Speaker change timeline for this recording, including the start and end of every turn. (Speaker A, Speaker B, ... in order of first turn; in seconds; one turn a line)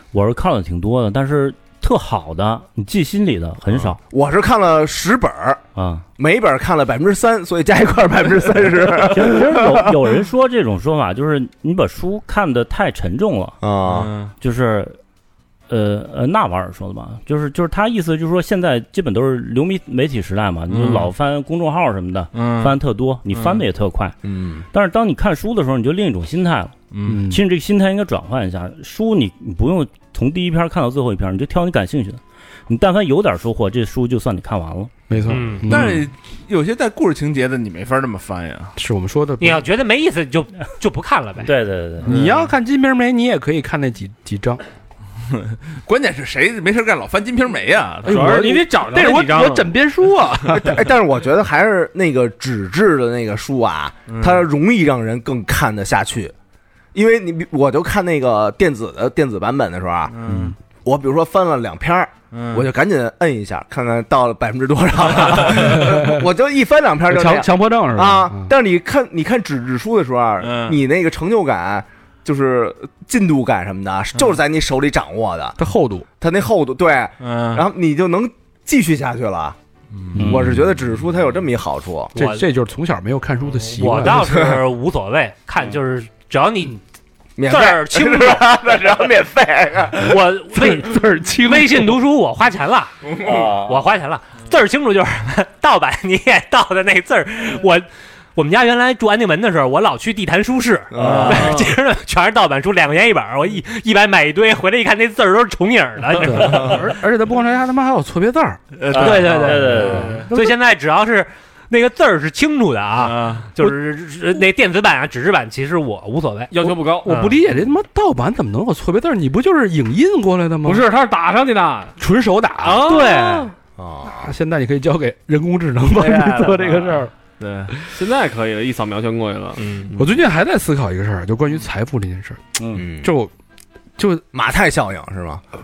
Speaker A: 0.1-4.0
Speaker B: 4.1-5.6
Speaker A: 5.8-6.0
Speaker B: 6.2-9.9
Speaker A: 9.0-13.6
Speaker B: 13.6-14.1
Speaker C: 13.8-14.3
Speaker A: 14.4-15.0
Speaker A: 15.7-24.2
Speaker C: 20.7-21.1
Speaker C: 22.3-22.8
Speaker C: 23.3-23.6
Speaker B: 24.2-24.7
Speaker A: 24.7-34.9
Speaker C: 26.9-27.2
Speaker D: 27.0-27.4
Speaker D: 35.1-36.1
Speaker E: 35.3-35.8
Speaker C: 35.7-38.7
Speaker D: 38.8-39.7
Speaker E: 39.4-41.5
Speaker A: 41.4-42.1
Speaker D: 42.0-44.6
Speaker C: 42.1-42.5
Speaker C: 45.4-48.3
Speaker F: 48.0-49.7
Speaker D: 48.0-50.8
Speaker B: 50.5-56.3
Speaker C: 54.1-54.5
Speaker B: 56.9-60.1
Speaker C: 60.1-60.5
Speaker D: 60.2-60.5
Speaker B: 60.9-75.6
Speaker C: 62.3-62.7
Speaker D: 65.7-66.2
Speaker D: 67.1-68.5
Speaker C: 70.4-70.8
Speaker D: 75.6-76.1
Speaker B: 76.2-79.6
Speaker C: 77.2-77.6
Speaker C: 79.9-80.6
Speaker A: 80.2-80.6
Speaker B: 80.2-82.1
Speaker E: 82.2-82.5
Speaker D: 82.2-84.2
Speaker E: 83.7-86.8
Speaker B: 84.0-84.6
Speaker B: 87.4-90.2
Speaker E: 87.4-88.6
Speaker E: 90.0-106.8
Speaker D: 90.5-91.8
Speaker A: 93.3-93.7
Speaker B: 100.9-101.6
Speaker C: 101.0-101.7
Speaker D: 106.2-108.7
Speaker C: 108.7-110.3
Speaker A: 108.9-110.3
Speaker E: 108.9-116.5
Speaker C: 113.0-113.5
Speaker F: 116.5-117.1
Speaker D: 116.6-120.9
Speaker E: 117.0-117.4
Speaker F: 120.6-122.0
Speaker D: 122.0-123.0
Speaker F: 122.6-123.5
Speaker E: 122.7-123.5
Speaker B: 123.8-124.3
Speaker D: 124.0-127.1
Speaker E: 126.0-127.0
Speaker C: 127.4-127.7
Speaker F: 128.0-130.1
Speaker E: 129.6-129.9
Speaker D: 130.0-132.4
Speaker A: 132.6-132.8
Speaker B: 132.8-133.1
Speaker D: 133.0-133.3
Speaker D: 134.0-134.2
Speaker B: 134.3-135.4